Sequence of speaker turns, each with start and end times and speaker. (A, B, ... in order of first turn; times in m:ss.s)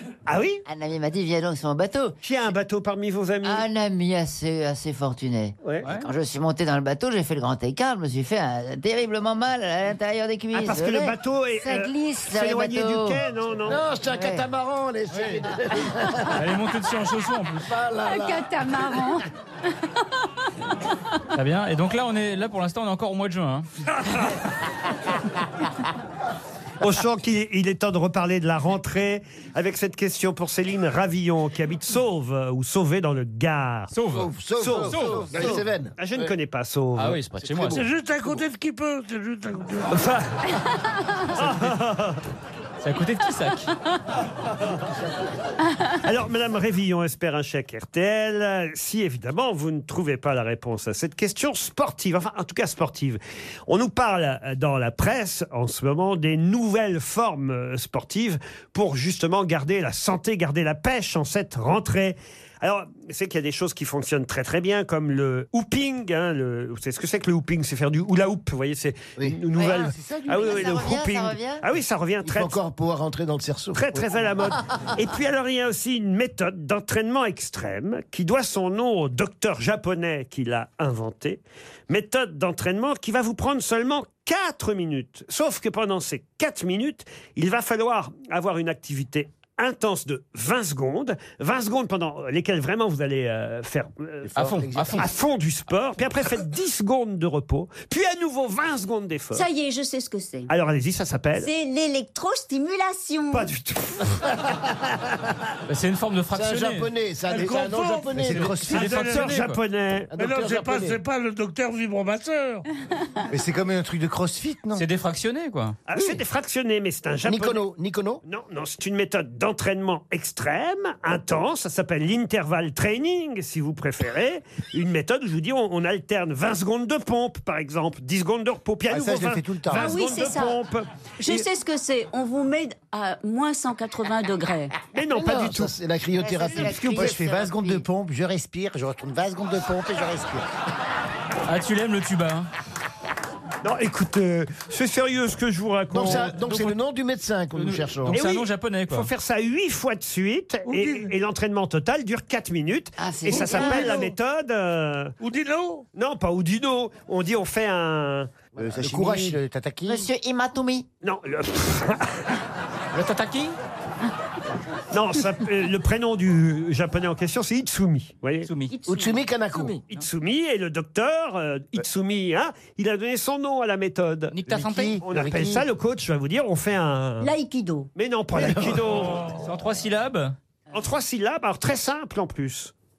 0:00.3-0:00.6 A
0:00.7-0:02.2 B
0:02.2-0:03.7 A
0:03.4-0:13.2 B
0:05.8-0:06.1 C
0:10.5-0:13.8 A
0:13.6-0:16.5 D
0:14.0-0:14.5 B
0:15.1-0:15.4 C
0:16.3-0:17.7 C
0:17.7-0:18.5 D
0:18.0-0:19.3 E
0:21.3-0:23.7 C
0:26.8-0:33.9 A
0:33.9-0:35.5 C
0:34.1-0:36.3 D
0:34.6-0:37.2 A
0:37.0-0:37.9 C
0:37.7-0:40.1 F
0:39.9-0:40.3 A
0:41.4-0:42.2 A
0:41.4-0:41.7 C
0:42.8-0:43.7 C
0:46.0-1:12.6 A
1:09.5-1:11.6 B
1:12.2-1:14.0 D
1:13.7-1:34.3 A
1:34.3-1:35.1 D
1:34.4-1:35.1 C
1:35.0-1:39.4 A
1:39.3-1:40.5 E
1:40.5-1:41.5 A
1:41.4-1:43.5 E
1:43.3-1:44.3 A
1:45.7-1:46.9 C
1:46.3-1:48.7 D
1:47.3-1:48.3 F
1:48.1-1:49.0 G
1:48.3-1:49.6 C
1:48.7-1:50.1 A
1:48.8-1:49.3 F
1:50.1-1:51.0 D
1:50.2-1:52.7 F
1:53.3-1:54.9 G
1:54.8-1:55.8 C
1:55.9-1:57.6 A
1:57.2-1:58.2 D
1:58.2-2:11.4 A
2:08.9-2:09.9 G
2:09.7-2:10.6 E
2:11.2-2:14.8 E
2:14.9-2:15.7 A
2:15.1-2:17.1 D
2:16.2-2:17.9 B
2:16.4-2:17.1 A
2:16.9-2:20.4 G
2:21.5-2:22.5 C
2:23.6-2:26.4 A
2:25.9-2:28.2 D
2:26.1-2:26.8 C
2:27.5-2:29.1 C
2:28.1-2:35.2 A
2:30.7-2:31.1 F
2:33.0-2:34.1 B
2:33.3-2:34.1 F
2:35.2-2:35.9 F
2:36.0-2:38.3 A
2:38.6-2:39.4 D
2:38.6-2:40.1 G
2:39.9-2:40.9 B
2:41.0-2:42.2 A
2:42.9-2:43.6 C
2:44.9-2:48.5 A
2:48.4-2:48.8 C
2:48.7-2:49.2 E
2:48.9-2:49.8 D
2:49.9-2:54.4 A
2:54.3-2:55.0 C
2:54.5-2:55.6 G
2:55.0-2:57.3 A
2:57.2-2:57.9 E
2:58.0-2:59.3 A
2:58.4-2:58.8 D
2:58.9-3:00.4 C
3:00.7-3:02.7 A